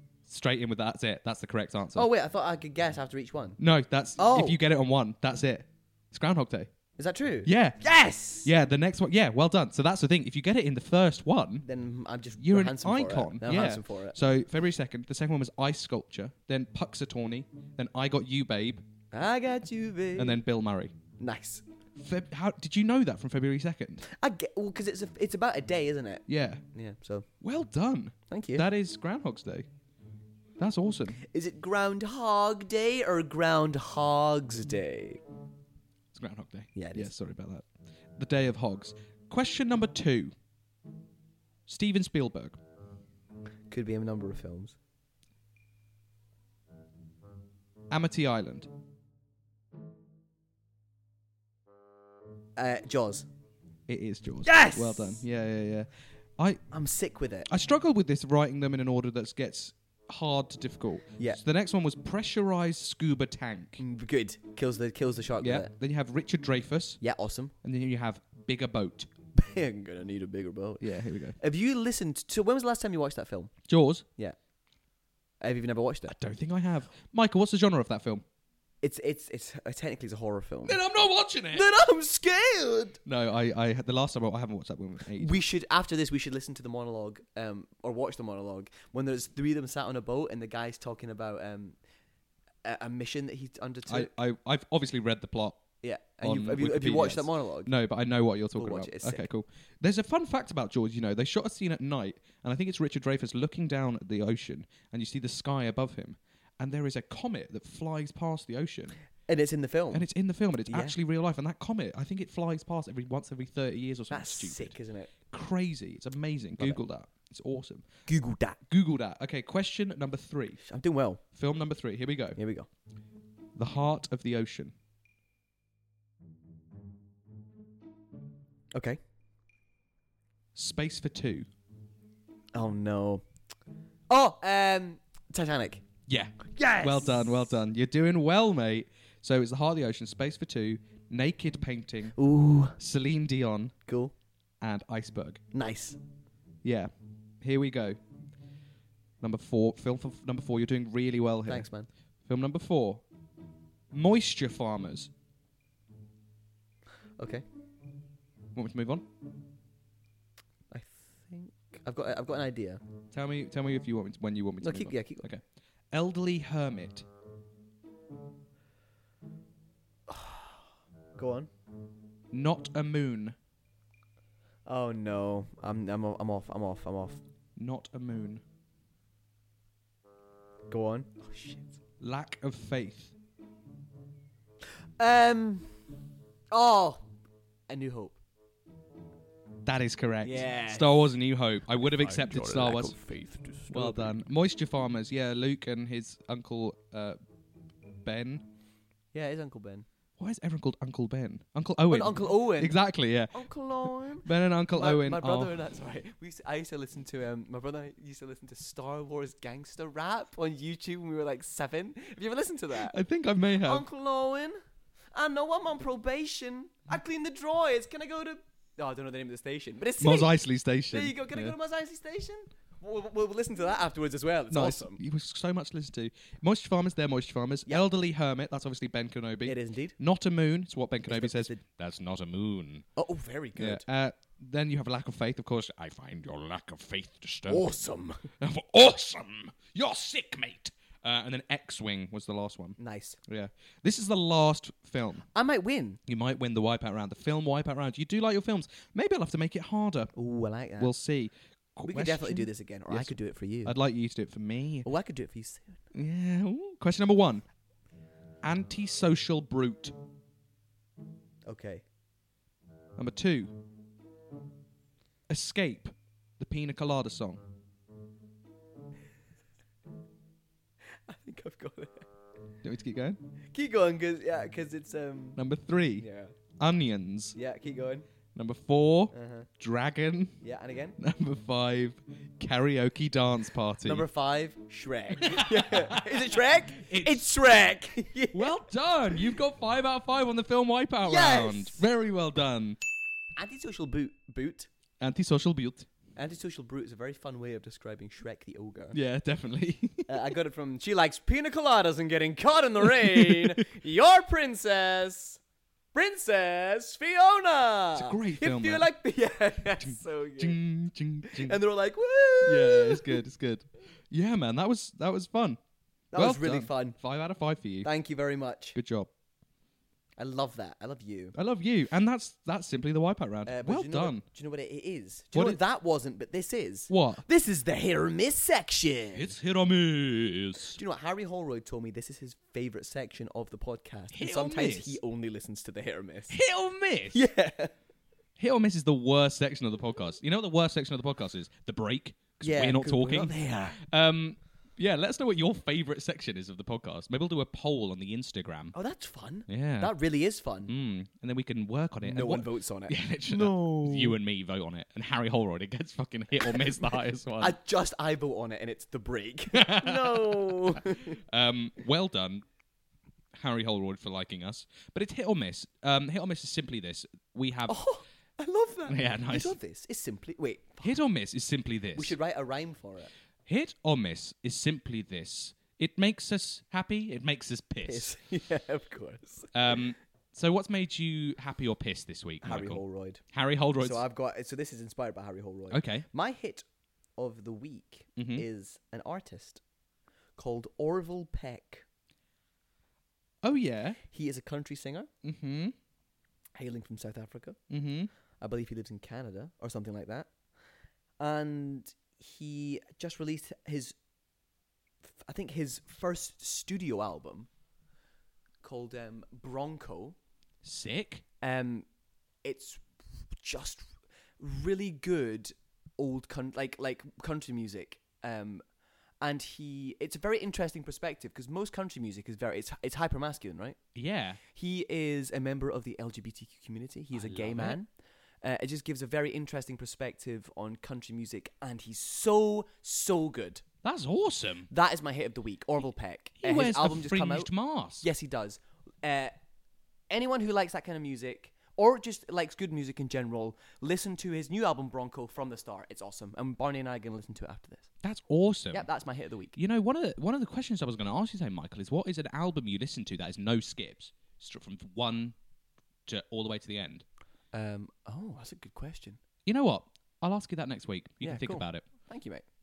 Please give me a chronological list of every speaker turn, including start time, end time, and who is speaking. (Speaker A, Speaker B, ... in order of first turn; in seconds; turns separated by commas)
Speaker A: 0.3-2.1, Speaker B: 2.0-3.6, Speaker A: 3.6-6.7, Speaker B: 4.2-4.6, Speaker B: 7.0-8.5, Speaker A: 7.5-7.8, Speaker A: 8.4-11.7, Speaker B: 11.6-14.2, Speaker A: 12.4-18.8, Speaker B: 19.1-20.4, Speaker A: 20.2-20.9, Speaker B: 21.2-21.6, Speaker A: 22.0-24.1, Speaker B: 24.1-27.3, Speaker A: 26.3-26.6, Speaker A: 27.4-29.7, Speaker B: 28.3-28.7, Speaker A: 30.6-31.2, Speaker B: 31.2-35.2, Speaker A: 36.1-40.4, Speaker B: 36.8-37.1, Speaker A: 41.7-42.6, Speaker B: 43.7-44.8, Speaker A: 47.9-48.7, Speaker B: 52.6-53.3, Speaker A: 53.9-56.6, Speaker B: 54.4-55.2, Speaker B: 56.7-57.5, Speaker A: 57.5-63.8, Speaker B: 63.8-65.7, Speaker A: 65.4-67.0, Speaker B: 67.0-67.5, Speaker A: 67.6-69.1, Speaker B: 69.3-70.9, Speaker A: 70.8-71.4, Speaker B: 71.4-73.5, Speaker A: 73.7-74.0, Speaker B: 75.4-76.2, Speaker A: 76.1-78.2, Speaker B: 78.8-80.8, Speaker A: 80.7-81.7, Speaker B: 81.5-83.0, Speaker A: 83.1-85.4, Speaker B: 85.2-91.8, Speaker B: 92.6-94.1, Speaker A: 93.9-95.6, Speaker B: 95.8-97.7, Speaker A: 96.2-109.0, Speaker B: 98.6-99.3, Speaker B: 109.3-110.1, Speaker A: 109.9-114.8, Speaker B: 110.7-111.0, Speaker B: 114.1-115.1, Speaker A: 115.3-117.9, Speaker B: 118.1-118.6, Speaker A: 118.7-120.6, Speaker B: 120.6-121.2, Speaker A: 121.3-122.4, Speaker B: 122.4-122.7, Speaker A: 123.6-124.7, Speaker B: 128.7-129.0, Speaker A: 130.6-131.5, Speaker B: 132.5-133.2, Speaker B: 134.1-135.8, Speaker A: 136.1-142.2, Speaker B: 136.5-137.5, Speaker B: 142.2-142.8, Speaker A: 142.8-143.7, Speaker B: 143.9-144.1, Speaker A: 144.6-145.4, Speaker B: 145.5-146.0, Speaker A: 146.6-146.9, Speaker A: 147.4-148.0, Speaker A: 149.2-151.7, Speaker B: 151.5-151.9, Speaker A: 152.3-153.0, Speaker A: 153.9-155.1, Speaker B: 157.2-157.4, Speaker A: 158.5-159.1, Speaker B: 160.7-162.8, Speaker A: 163.1-167.1, Speaker B: 164.6-165.3, Speaker B: 170.1-170.6, Speaker B: 171.2-171.5, Speaker A: 172.3-173.4, Speaker B: 174.7-177.2, Speaker A: 177.6-178.4, Speaker B: 180.7-181.8, Speaker A: 182.0-183.1, Speaker B: 185.0-185.8, Speaker B: 186.5-187.1, Speaker B: 187.7-188.2, Speaker A: 189.7-193.0, Speaker B: 190.2-191.0, Speaker B: 191.9-194.1, Speaker A: 193.7-197.2, Speaker A: 198.0-198.5, Speaker B: 199.1-199.9, Speaker A: 200.2-203.4, Speaker B: 201.9-202.8, Speaker B: 203.3-213.0, Speaker A: 204.2-205.6, Speaker A: 212.7-213.9, Speaker B: 213.6-214.6, Speaker B: 215.1-220.3, Speaker A: 220.0-221.5, Speaker B: 220.9-225.0, Speaker A: 224.5-232.9, Speaker B: 229.4-230.0, Speaker B: 231.1-231.6, Speaker B: 233.0-233.8, Speaker A: 233.6-237.7, Speaker B: 237.5-238.2, Speaker A: 238.4-245.2, Speaker B: 242.8-243.2, Speaker B: 245.3-246.0, Speaker A: 246.1-250.1, Speaker B: 250.1-250.9, Speaker A: 250.8-253.1, Speaker B: 251.9-253.8, Speaker A: 253.6-254.9, Speaker B: 254.8-255.8, Speaker A: 255.9-257.4, Speaker A: 258.4-259.9, Speaker B: 261.5-261.8, Speaker A: 263.0-263.6, Speaker A: 265.3-267.4, Speaker B: 271.1-272.1, Speaker A: 272.6-273.2, Speaker B: 273.5-275.4, Speaker A: 275.4-276.1, Speaker B: 276.0-276.3, Speaker A: 276.6-277.4, Speaker B: 277.4-278.1, Speaker A: 278.4-280.4, Speaker B: 279.1-279.5, Speaker B: 280.4-281.0, Speaker A: 281.0-284.1, Speaker B: 283.9-288.6, Speaker A: 285.1-287.2, Speaker A: 288.3-292.8, Speaker B: 291.1-291.8, Speaker B: 293.4-294.7, Speaker A: 295.0-295.9, Speaker B: 296.2-299.0, Speaker A: 298.9-300.1, Speaker B: 300.1-305.4, Speaker A: 302.8-303.6, Speaker B: 305.9-310.6, Speaker A: 307.9-308.9, Speaker A: 309.8-311.6, Speaker B: 311.2-313.2, Speaker A: 312.4-315.6, Speaker B: 316.1-317.0, Speaker A: 316.1-317.9, Speaker B: 317.8-318.8, Speaker A: 318.8-319.1, Speaker B: 320.2-321.4, Speaker A: 321.4-324.2, Speaker B: 323.5-329.3, Speaker A: 325.3-325.6, Speaker A: 326.9-327.2, Speaker A: 329.1-330.8, Speaker B: 330.8-336.4, Speaker A: 334.1-335.0, Speaker A: 336.3-337.2, Speaker B: 337.1-337.7, Speaker A: 338.4-348.8, Speaker B: 342.4-343.8, Speaker B: 348.7-350.7, Speaker A: 349.5-349.9, Speaker A: 350.7-357.6, Speaker B: 352.0-354.2, Speaker B: 356.4-361.2, Speaker A: 359.5-362.4, Speaker A: 363.3-367.8, Speaker B: 367.7-370.9, Speaker A: 368.9-369.6, Speaker A: 370.8-372.2, Speaker B: 371.9-373.1, Speaker A: 373.5-378.1, Speaker B: 377.8-379.9, Speaker A: 379.5-384.0, Speaker B: 382.4-383.2, Speaker B: 383.8-386.6, Speaker A: 385.7-386.1, Speaker B: 387.2-389.6, Speaker A: 388.2-388.4, Speaker B: 390.4-391.9, Speaker A: 393.4-394.0, Speaker B: 394.1-395.1, Speaker A: 395.2-395.8, Speaker B: 396.6-397.6, Speaker A: 397.7-398.1, Speaker B: 398.4-400.3, Speaker B: 401.2-404.0, Speaker B: 405.1-407.5, Speaker B: 408.6-410.2, Speaker A: 410.6-411.2, Speaker B: 411.4-411.9, Speaker B: 412.4-412.9, Speaker B: 413.4-418.6, Speaker B: 419.2-423.8, Speaker A: 423.9-424.4, Speaker B: 424.5-427.9, Speaker A: 427.1-427.8, Speaker B: 428.4-433.6, Speaker A: 433.8-434.7, Speaker B: 434.7-437.5, Speaker A: 436.4-438.1, Speaker B: 438.0-439.4, Speaker B: 440.1-447.9, Speaker A: 448.0-448.9, Speaker B: 448.7-449.6, Speaker A: 449.6-455.4, Speaker A: 456.1-457.0, Speaker B: 457.5-459.2, Speaker A: 459.5-461.9, Speaker B: 461.2-462.4